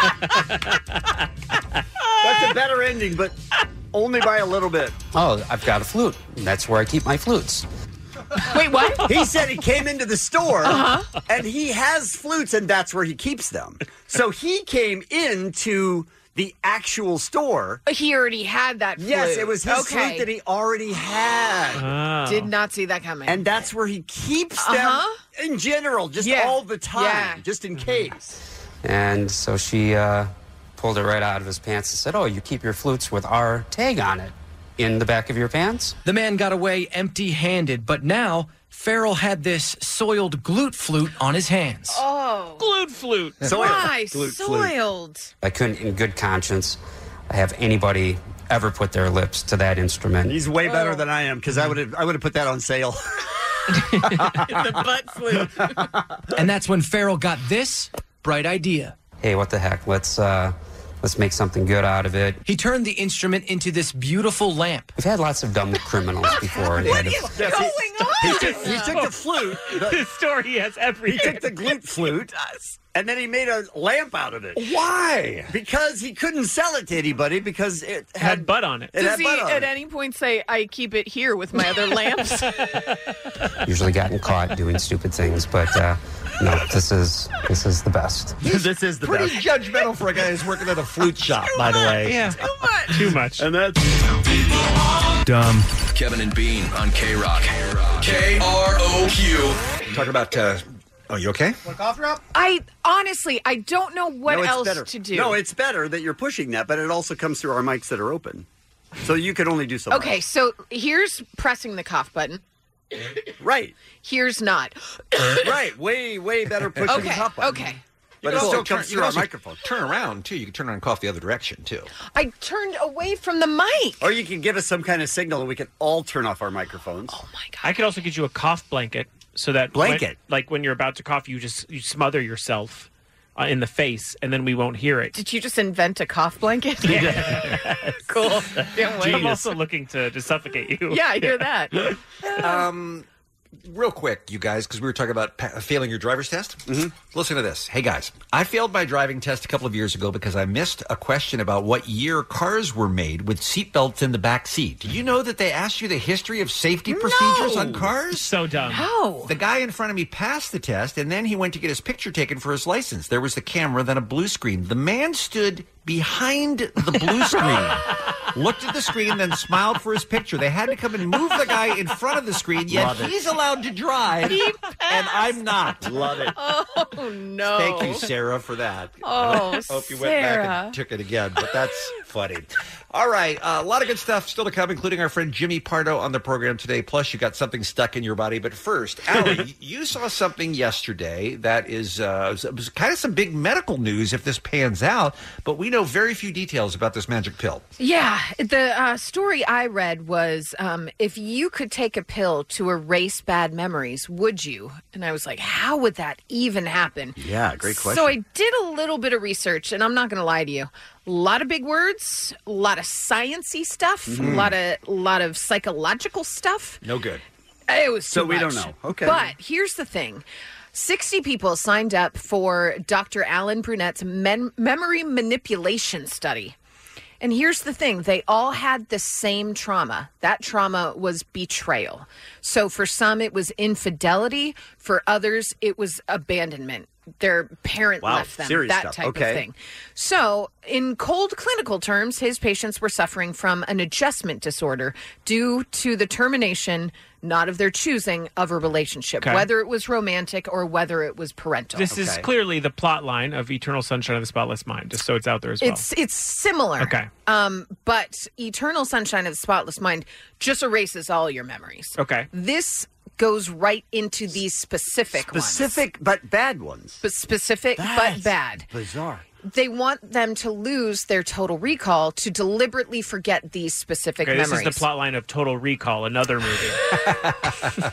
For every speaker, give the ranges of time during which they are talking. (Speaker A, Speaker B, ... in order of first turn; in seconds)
Speaker A: 2.2-3.4, 3.9-5.0, 9.1-17.8, 19.0-21.9, 23.3-28.3, 43.4-44.7, 50.3-53.2, 54.1-54.7, 67.3-70.0, 71.1-74.7, 75.5-79.7, 88.4-89.4, 93.4-94.0, 104.3-108.5, 109.0-110.2, 113.4-113.8, 115.4-117.7, 118.2-119.6, 124.0-127.2, 129.7-130.2, 136.9-137.2, 146.7-146.9, 172.7-173.2, 175.8-176.3, 207.2-208.2, 214.1-214.5, 218.1-219.3, 238.0-239.4, 251.9-252.3, 265.2-267.0, 267.8-269.2
Speaker B: 5.1-7.7, 28.8-36.0, 45.4-46.8, 47.3-50.4, 59.2-62.4, 65.0-67.4, 83.7-88.4
Speaker C: 8.5-9.1, 10.6-11.2, 17.9-20.3, 22.3-23.6, 24.6-25.2, 26.2-27.4, 41.9-42.7, 43.5-45.3, 50.7-51.0, 54.6-55.5, 66.5-69.1, 79.0-82.5, 102.3-105.4, 109.9-112.4, 114.0-115.5, 116.9-117.8, 122.1-124.1, 127.1-127.7, 135.2-139.4, 140.9-142.6, 156.9-157.8, 158.7-159.3, 174.3-175.4, 176.3-178.1, 179.0-180.8, 197.8-216.8, 217.7-226.6, 227.2-252.0, 255.6-265.8, 267.0-268.7, 269.4-274.9
Speaker D: 21.7-22.5, 42.6-43.5, 68.8-71.7, 78.2-78.9, 82.6-82.9, 92.0-93.5, 127.6-135.2, 136.8-138.0, 138.6-141.5, 158.1-158.9, 249.2-249.5, 251.8-255.8, 256.8-257.1, 262.0-262.3, 274.2-277.0
Speaker E: 36.0-42.0, 56.4-59.0, 62.5-64.9
Speaker F: 66.6-67.2, 74.5-75.5, 88.4-92.3, 99.9-101.6, 116.8-117.1, 118.2-121.9, 142.4-143.1, 143.6-158.3, 159.3-176.3, 177.4-197.7, 214.2-214.5, 216.8-217.2
Speaker G: 95.9-99.6